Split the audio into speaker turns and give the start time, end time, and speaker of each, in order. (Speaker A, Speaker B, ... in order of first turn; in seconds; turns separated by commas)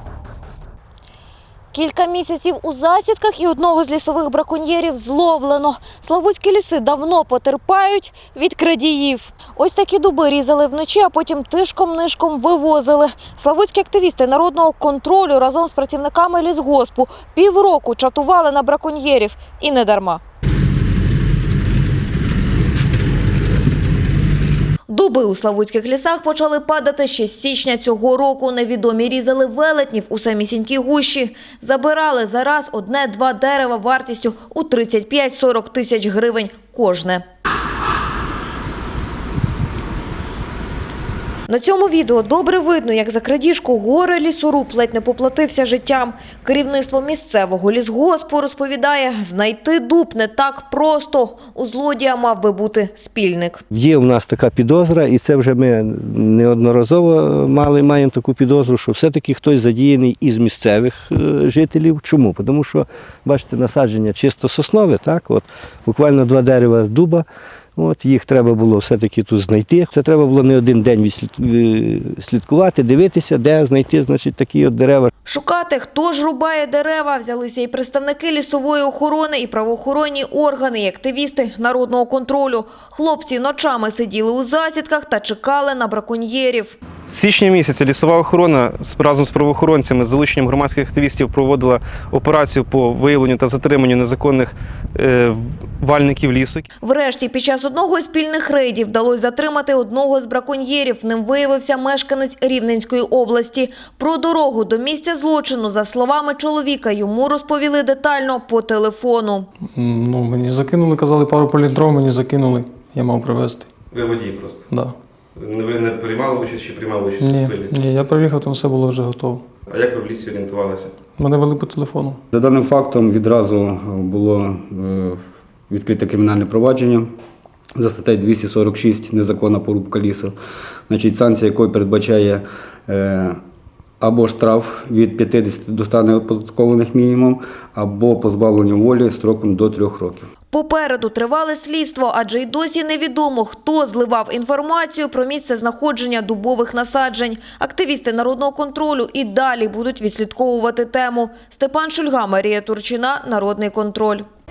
Speaker A: 1.7-20.2, Speaker A: 24.9-37.2, Speaker A: 41.5-53.6, Speaker B: 53.7-67.2, Speaker B: 67.8-75.1, Speaker A: 75.2-86.8, Speaker C: 87.1-96.7, Speaker A: 96.8-109.5, Speaker D: 109.7-113.7, Speaker C: 113.9-114.6, Speaker D: 114.7-115.0, Speaker C: 115.4-117.7, Speaker D: 117.2-119.4, Speaker C: 119.7-120.9, Speaker D: 121.2-122.2, Speaker E: 122.3-127.1, Speaker E: 127.8-130.3, Speaker E: 130.9-133.4, Speaker E: 134.0-140.3, Speaker A: 140.5-154.3